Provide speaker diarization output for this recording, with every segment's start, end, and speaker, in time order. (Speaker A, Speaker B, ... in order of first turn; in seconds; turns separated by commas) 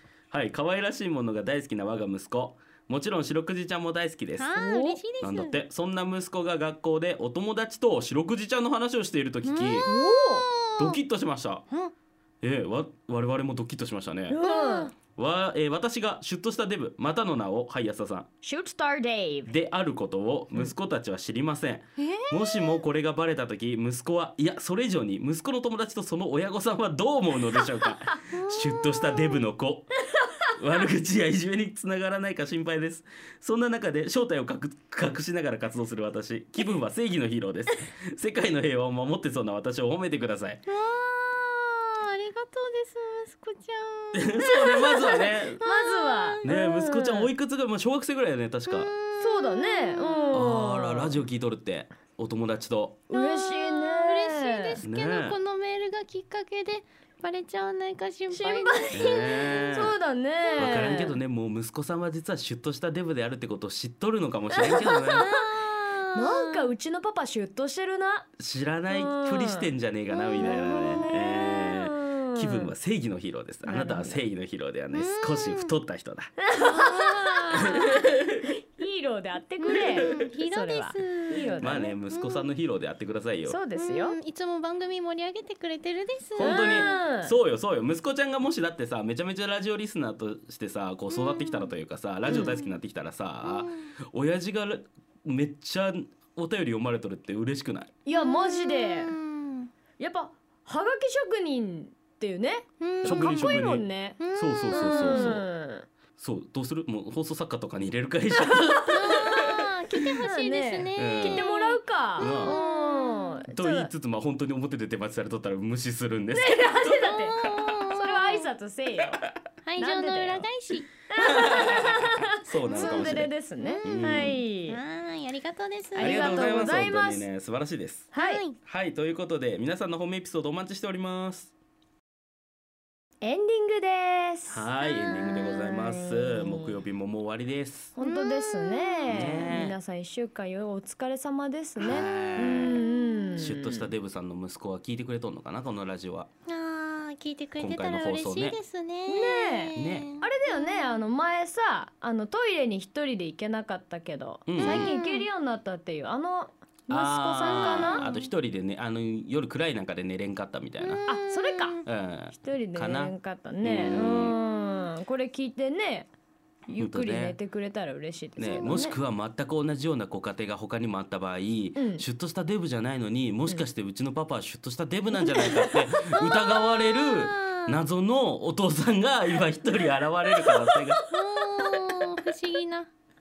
Speaker A: 0.3-4.6, Speaker B: 4.4-5.6, Speaker C: 4.5-5.0, Speaker A: 5.2-9.9, Speaker B: 9.4-11.0, Speaker C: 9.8-10.5, Speaker A: 10.8-11.7, Speaker A: 12.4-14.4, Speaker C: 14.3-14.9, Speaker B: 14.4-14.9, Speaker A: 15.2-18.3, Speaker C: 18.4-19.5, Speaker A: 19.5-30.0, Speaker B: 28.3-29.5, Speaker A: 30.6-40.6, Speaker B: 40.7-44.6, Speaker A: 44.1-45.6, Speaker C: 44.5-47.3, Speaker B: 45.1-46.5, Speaker A: 46.4-48.9, Speaker B: 48.7-50.5, Speaker C: 49.2-51.2, Speaker A: 50.3-53.0, Speaker C: 53.1-54.8, Speaker B: 53.1-59.8, Speaker A: 54.8-55.4, Speaker C: 58.3-61.1, Speaker A: 58.9-60.0, Speaker B: 60.4-61.1, Speaker A: 60.6-65.3, Speaker C: 64.7-65.4, Speaker B: 64.7-66.7, Speaker C: 66.1-68.3, Speaker A: 68.4-76.3, Speaker C: 68.9-69.7, Speaker B: 70.1-71.0, Speaker C: 70.3-72.7, Speaker C: 73.6-74.2, Speaker B: 74.9-75.8, Speaker C: 76.4-78.1, Speaker B: 76.6-78.0, Speaker A: 77.7-78.2, Speaker C: 78.8-82.0, Speaker B: 79.7-82.5, Speaker A: 81.6-83.6, Speaker C: 83.5-84.2, Speaker B: 83.8-87.0, Speaker A: 86.3-97.9, Speaker C: 86.4-87.3, Speaker B: 91.1-91.7, Speaker B: 92.3-92.8, Speaker B: 93.4-93.9, Speaker C: 98.0-99.2, Speaker B: 98.1-99.7, Speaker C: 100.0-105.9, Speaker B: 102.8-103.7, Speaker A: 103.0-105.5, Speaker B: 104.2-105.4, Speaker A: 106.2-109.6, Speaker C: 108.4-109.5, Speaker B: 108.9-113.5, Speaker C: 110.2-113.9, Speaker A: 111.0-111.5, Speaker A: 112.2-112.6, Speaker A: 113.5-117.7, Speaker C: 116.3-119.2, Speaker B: 117.0-118.5, Speaker B: 119.7-120.9, Speaker C: 119.8-120.5, Speaker C: 121.1-124.8, Speaker A: 121.2-123.3, Speaker B: 122.7-124.0, Speaker A: 123.8-124.4, Speaker B: 124.7-126.4, Speaker C: 126.0-127.3, Speaker A: 126.0-128.1, Speaker C: 128.1-128.4, Speaker B: 128.2-128.6, Speaker A: 128.7-131.5, Speaker C: 133.2-134.7, Speaker A: 134.5-137.9, Speaker B: 134.8-135.4, Speaker C: 135.3-136.8, Speaker C: 138.0-143.9, Speaker B: 138.0-139.5, Speaker A: 139.1-139.8, Speaker A: 141.8-142.8, Speaker B: 143.0-143.3, Speaker A: 143.4-146.3, Speaker B: 146.5-151.0, Speaker A: 147.6-148.6, Speaker C: 149.1-158.1, Speaker A: 149.8-150.1, Speaker A: 154.5-154.9, Speaker B: 154.6-155.3, Speaker A: 156.9-161.1, Speaker B: 157.4-158.3, Speaker B: 160.8-161.8, Speaker C: 161.1-161.8, Speaker A: 161.9-164.4, Speaker C: 162.3-166.1, Speaker C: 166.7-169.0, Speaker A: 166.8-167.4, Speaker A: 168.4-181.0, Speaker B: 168.4-168.9, Speaker C: 171.8-172.1, Speaker C: 175.2-175.8, Speaker B: 175.4-177.8, Speaker C: 180.2-181.1, Speaker B: 181.1-182.9